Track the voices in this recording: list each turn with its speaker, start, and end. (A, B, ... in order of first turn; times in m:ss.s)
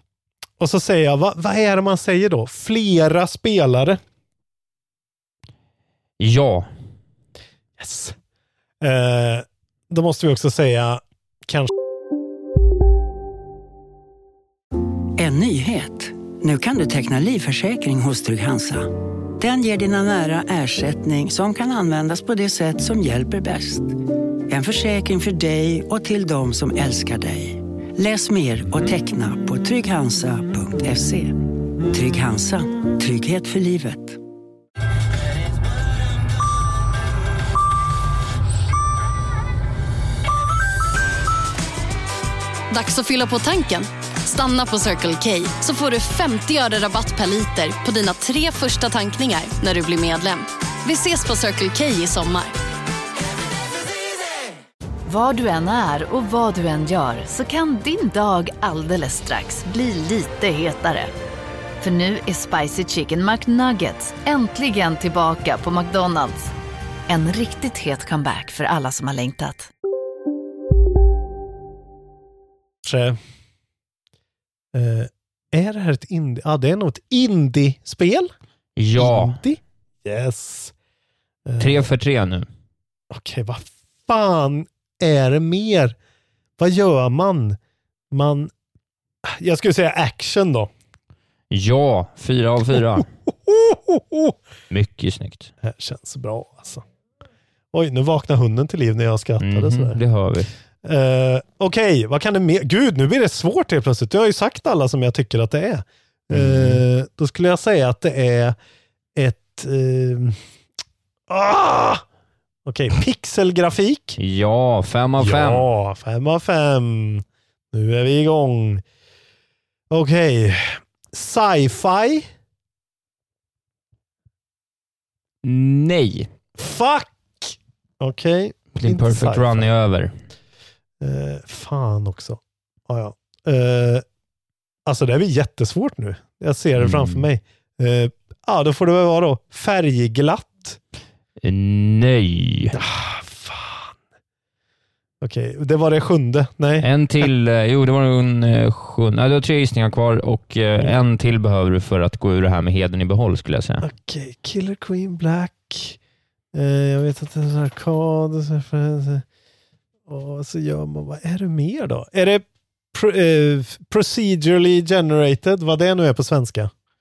0:00.6-0:04.0 A
0:06.2-0:06.7 B
0:07.8-0:08.2 A
0:08.8-0:11.7 A
0:15.2-0:23.9 C
0:24.5-0:34.2 C
0:42.7-0:52.5 D
0:55.1-1:01.1 E
1:01.8-1:06.5 E
1:07.1-1:09.7 E
1:12.8-1:13.2 A
1:14.7-1:18.3 A
1:18.8-1:19.4 B
1:19.0-1:20.7 A
1:21.4-1:21.8 A
1:21.6-1:22.5 B
1:23.1-1:26.0 A
1:26.6-1:27.6 A
1:28.1-1:28.5 A
1:29.2-1:30.7 A
1:31.5-1:33.0 B
1:33.3-1:34.3 A
1:34.7-1:35.5 B
1:35.6-1:36.8 A
1:37.7-1:40.0 A
1:39.4-1:40.5 B
1:40.8-1:48.6 A
1:46.3-1:46.8 B
1:49.2-1:50.4 A
1:51.3-1:52.0 A
1:52.6-1:54.2 A
1:54.2-1:55.7 B
1:55.2-1:58.8 A
1:59.9-2:02.3 A
2:05.4-2:06.3 B
2:06.6-2:09.7 A
2:08.8-2:10.1 B
2:11.0-2:14.0 A
2:14.8-2:20.8 A
2:16.8-2:17.2 B
2:21.4-2:22.8 B
2:22.7-2:23.9 A
2:25.2-2:26.9 A
2:26.8-2:33.8 B
2:33.8-2:36.0 A
2:36.5-2:39.2 A
2:40.1-2:46.7 A